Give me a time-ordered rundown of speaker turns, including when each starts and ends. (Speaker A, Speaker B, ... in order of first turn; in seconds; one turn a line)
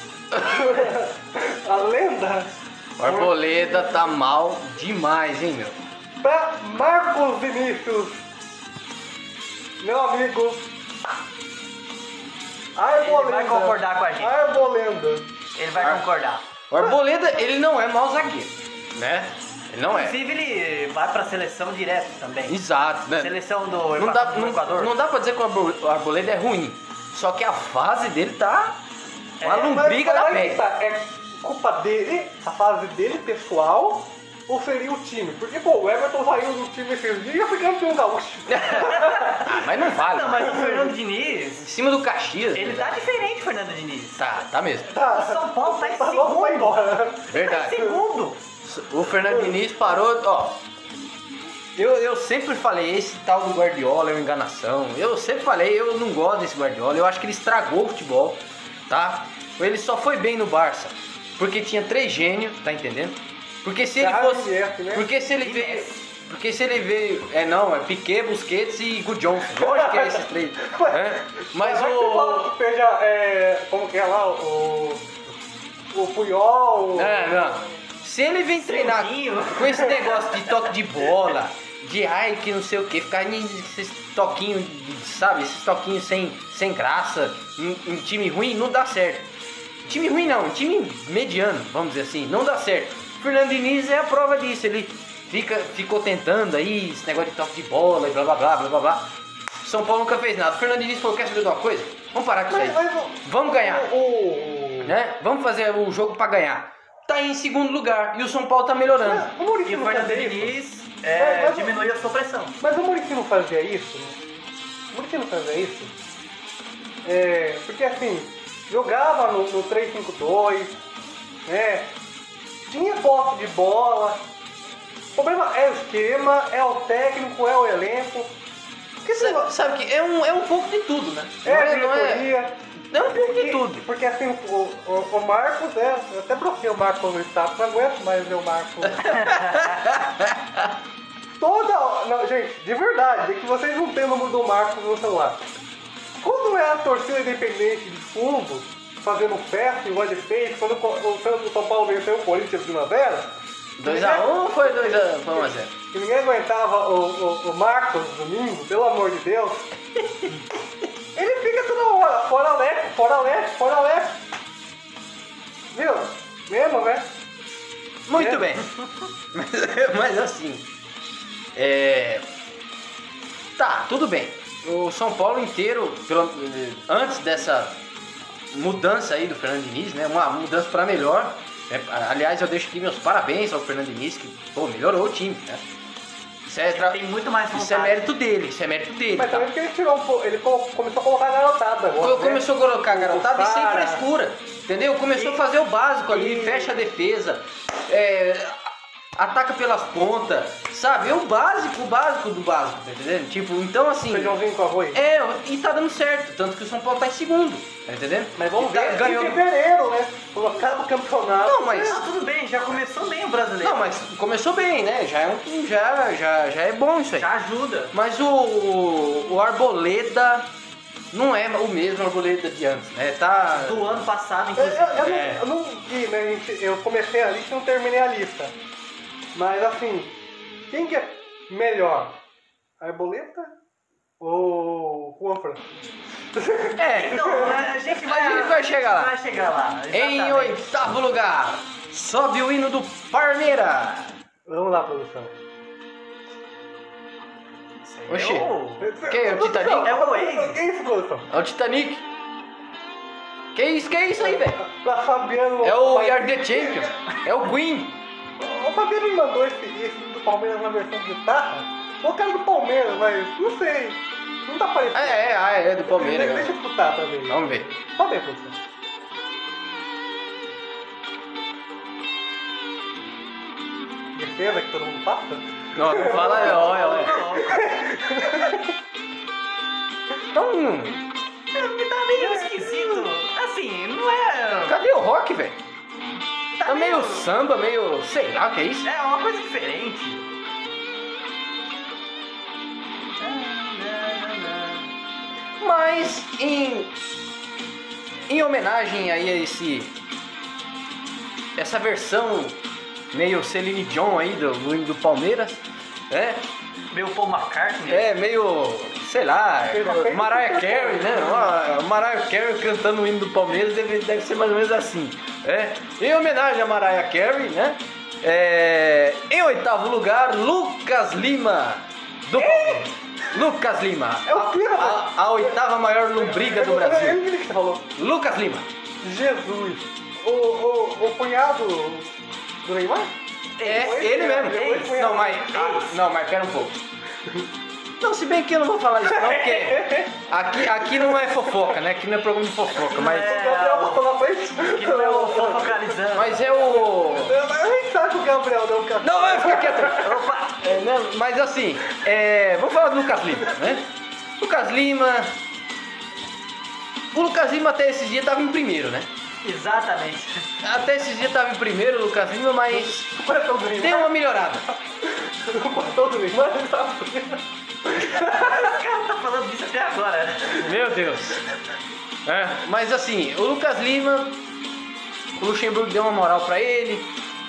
Speaker A: 0.3-4.1
Speaker B: 3.0-5.8
Speaker A: 6.2-8.3
Speaker A: 9.8-10.7
Speaker A: 12.8-15.3
Speaker C: 12.9-14.4
Speaker C: 15.5-16.4
Speaker B: 16.7-20.2
Speaker C: 19.9-22.6
Speaker B: 22.5-23.4
Speaker C: 23.2-24.9
Speaker B: 23.9-28.8
Speaker C: 29.4-29.7
Speaker B: 29.4-30.6
Speaker A: 29.4-39.4
Speaker B: 38.5-40.6
Speaker C: 38.7-41.7
Speaker B: 41.6-43.0
Speaker C: 42.5-44.3
Speaker B: 44.2-44.9
Speaker A: 44.9-48.0
Speaker C: 45.1-46.8
Speaker B: 47.3-47.9
Speaker C: 47.3-48.4
Speaker B: 48.6-50.6
Speaker B: 51.8-72.5
Speaker A: 64.0-65.1
Speaker C: 65.4-66.0
Speaker A: 69.5-75.1
Speaker A: 75.9-77.5
Speaker B: 76.9-89.3
Speaker C: 78.5-80.2
Speaker B: 89.8-103.9
Speaker A: 102.5-105.0
Speaker B: 104.8-109.3
Speaker A: 109.0-110.5
Speaker C: 109.6-112.6
Speaker A: 111.2-111.8
Speaker A: 112.6-114.2
Speaker A: 114.9-115.9
Speaker A: 117.0-120.8
Speaker A: 121.5-122.0
Speaker A: 122.7-124.2
Speaker A: 125.2-128.4
Speaker A: 129.0-129.5
Speaker B: 129.0-132.3
Speaker A: 131.4-139.2
Speaker B: 132.9-133.8
Speaker B: 139.0-140.7
Speaker C: 139.0-139.6
Speaker A: 141.4-145.4
Speaker A: 146.2-159.7
Speaker B: 153.8-155.7
Speaker A: 161.1-164.2
Speaker A: 165.7-167.1
Speaker B: 168.1-168.7
Speaker A: 168.1-168.5
Speaker B: 169.3-170.7
Speaker B: 171.5-172.3
Speaker B: 173.6-177.8
Speaker B: 178.5-185.6
Speaker B: 186.4-187.0
Speaker C: 186.7-188.0
Speaker B: 187.5-189.5
Speaker A: 189.1-194.0
Speaker B: 192.0-204.4
Speaker C: 195.1-195.4
Speaker A: 196.2-196.6
Speaker A: 204.1-205.0
Speaker B: 204.9-209.4
Speaker A: 208.4-212.1
Speaker B: 211.4-212.0
Speaker C: 211.8-214.0
Speaker B: 213.6-217.3
Speaker C: 217.1-217.9
Speaker B: 217.9-220.5
Speaker B: 221.1-223.8
Speaker C: 223.5-225.4
Speaker A: 224.6-228.5
Speaker A: 229.3-230.2
Speaker A: 230.7-232.2
Speaker A: 232.8-233.5
Speaker A: 234.2-235.6
Speaker A: 236.3-237.7
Speaker B: 236.7-239.1
Speaker C: 236.9-240.7
Speaker B: 239.9-244.1
Speaker A: 244.4-245.3
Speaker C: 247.8-248.9
Speaker B: 248.1-248.5
Speaker A: 248.8-251.3
Speaker B: 249.1-249.9
Speaker C: 249.8-250.6
Speaker B: 251.3-252.1
Speaker B: 253.5-254.6
Speaker A: 254.2-257.0
Speaker B: 255.6-258.0
Speaker A: 258.4-265.3
Speaker B: 264.9-266.6
Speaker A: 265.9-268.6
Speaker B: 267.3-267.7
Speaker A: 274.1-278.7
Speaker B: 275.7-277.2
Speaker C: 276.1-277.7
Speaker B: 280.3-281.0
Speaker C: 281.5-284.8
Speaker A: 282.2-283.1
Speaker B: 284.7-285.6
Speaker C: 286.6-287.3
Speaker B: 286.6-288.9
Speaker C: 288.8-290.3
Speaker C: 293.2-294.9
Speaker B: 295.6-296.9
Speaker B: 298.3-299.9
Speaker B: 301.6-302.6
Speaker B: 303.1-306.5
Speaker C: 306.9-308.1
Speaker B: 307.9-327.2
Speaker A: 309.7-311.5
Speaker A: 322.4-322.9
Speaker A: 324.2-325.6
Speaker A: 326.1-327.9
Speaker B: 328.0-328.7
Speaker A: 329.0-332.1
Speaker A: 332.6-333.1
Speaker C: 333.6-335.9
Speaker B: 333.6-336.8
Speaker A: 333.7-335.5
Speaker B: 338.0-343.3
Speaker A: 339.0-341.3
Speaker C: 342.9-344.0
Speaker A: 343.0-350.2
Speaker C: 344.6-346.4
Speaker B: 346.1-347.4
Speaker B: 349.0-353.9
Speaker C: 350.0-350.6
Speaker A: 353.3-353.8
Speaker B: 354.4-355.4
Speaker B: 357.1-359.1
Speaker C: 359.4-360.5
Speaker B: 360.6-363.1
Speaker A: 362.7-364.1
Speaker B: 363.7-364.7
Speaker A: 365.1-368.5
Speaker C: 368.0-370.7
Speaker B: 370.6-371.4
Speaker B: 372.2-374.4
Speaker B: 375.4-377.1